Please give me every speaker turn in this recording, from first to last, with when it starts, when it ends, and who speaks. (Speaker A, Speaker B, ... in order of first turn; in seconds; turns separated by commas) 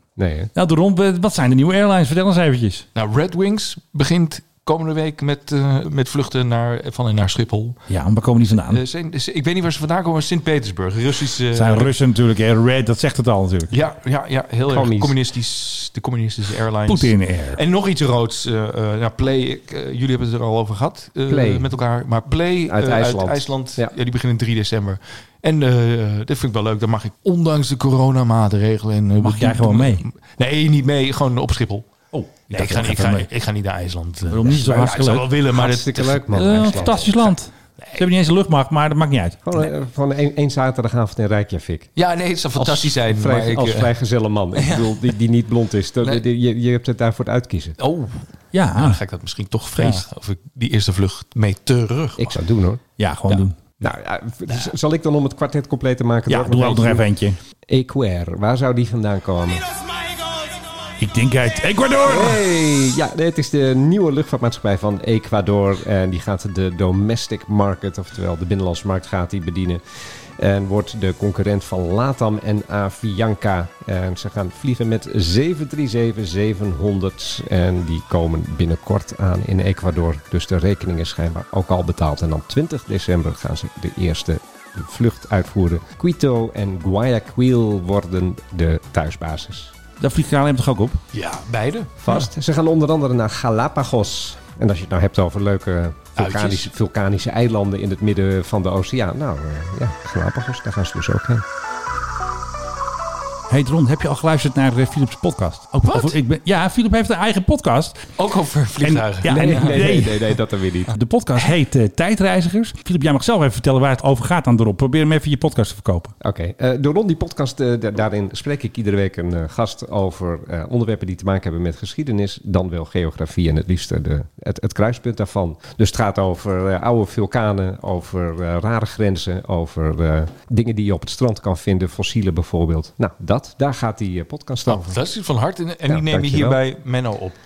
Speaker A: 0.2-0.5, Speaker B: 0.5-2.8, Speaker C: 2.9-7.8, Speaker B: 7.9-8.8, Speaker C: 8.7-11.9, Speaker B: 11.5-13.7, Speaker C: 13.7-31.9, Speaker A: 14.7-15.2, Speaker B: 16.9-17.6, Speaker A: 21.3-21.7, Speaker A: 22.7-23.9, Speaker B: 29.2-30.0, Speaker B: 32.1-33.3, Speaker C: 32.5-37.0, Speaker B: 34.3-35.3, Speaker A: 35.5-37.3, Speaker B: 36.3-39.4, Speaker A: 39.4-41.9, Speaker C: 42.0-43.9, Speaker A: 42.6-47.8, Speaker C: 44.5-45.1, Speaker C: 47.8-52.3, Speaker B: 48.5-49.0, Speaker B: 49.8-50.0, Speaker A: 52.2-52.8, Speaker B: 53.0-53.6, Speaker A: 53.8-57.0, Speaker B: 56.3-57.4, Speaker A: 57.7-59.6, Speaker B: 61.0-62.4, Speaker A: 62.0-69.8, Speaker A: 70.4-89.7, Speaker B: 90.0-91.0, Speaker C: 91.1-92.0, Speaker A: 92.0-101.4, Speaker C: 96.2-96.7, Speaker B: 103.5-108.1, Speaker C: 105.8-106.2, Speaker C: 108.2-109.9, Speaker B: 108.8-110.3, Speaker A: 109.3-110.9, Speaker B: 110.9-116.1, Speaker A: 116.2-135.0, Speaker C: 134.7-137.3, Speaker A: 135.8-136.6